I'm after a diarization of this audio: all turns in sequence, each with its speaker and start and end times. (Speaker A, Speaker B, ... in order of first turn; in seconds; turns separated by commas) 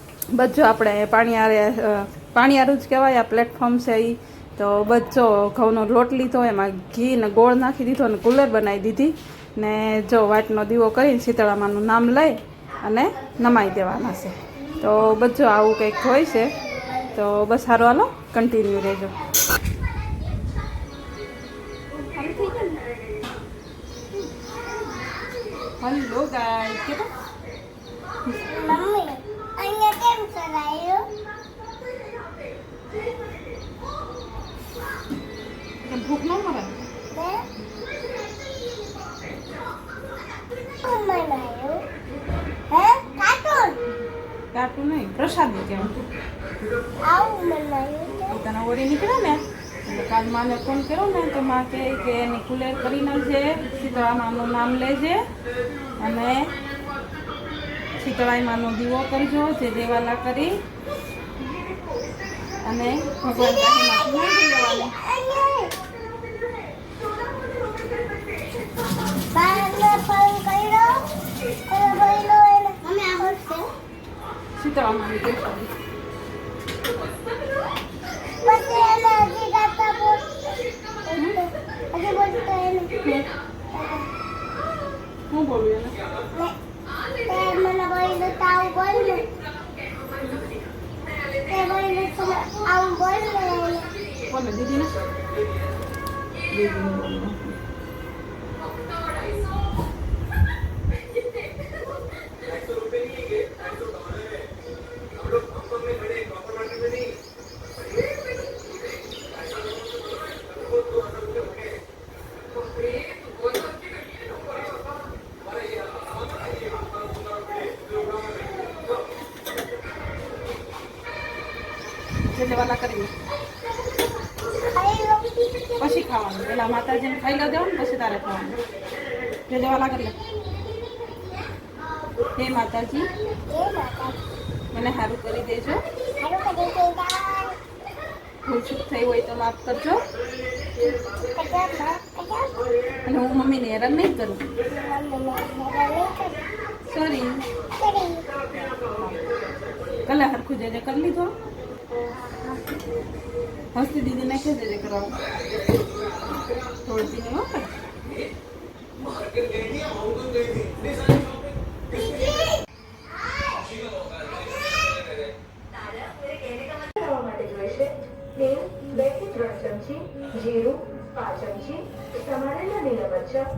Speaker A: 0.3-16.5, Speaker A: 17.1-19.1, Speaker A: 22.1-22.8, Speaker A: 25.8-27.1, Speaker B: 28.4-31.1, Speaker A: 35.8-36.7, Speaker B: 37.1-37.4, Speaker B: 40.7-41.8, Speaker B: 42.7-43.8, Speaker A: 44.5-46.0, Speaker B: 47.0-48.4, Speaker A: 48.3-55.2, Speaker A: 56.0-56.5, Speaker A: 58.0-60.6, Speaker A: 62.6-64.9, Speaker B: 64.7-65.8, Speaker B: 69.3-71.1, Speaker B: 71.7-73.7, Speaker A: 74.6-75.7, Speaker B: 78.4-82.9, Speaker A: 81.2-81.4, Speaker A: 83.0-83.3, Speaker B: 83.7-84.1, Speaker A: 85.3-86.0, Speaker B: 87.2-89.3, Speaker B: 91.4-93.9, Speaker A: 94.3-95.0, Speaker A: 96.5-97.5, Speaker A: 122.3-123.1, Speaker B: 124.7-125.7, Speaker A: 125.8-128.6, Speaker A: 129.5-130.2, Speaker A: 132.3-133.1, Speaker B: 133.5-134.2, Speaker A: 134.7-135.8, Speaker B: 136.2-137.6, Speaker A: 138.4-140.1, Speaker B: 140.8-142.5, Speaker A: 143.1-144.5, Speaker B: 144.7-146.4, Speaker A: 146.9-147.5, Speaker B: 147.8-148.3, Speaker A: 148.6-149.3, Speaker A: 150.0-151.3, Speaker B: 152.1-152.5, Speaker A: 153.7-155.2, Speaker A: 156.8-157.8, Speaker C: 167.0-167.9, Speaker C: 169.0-171.5, Speaker C: 172.5-173.2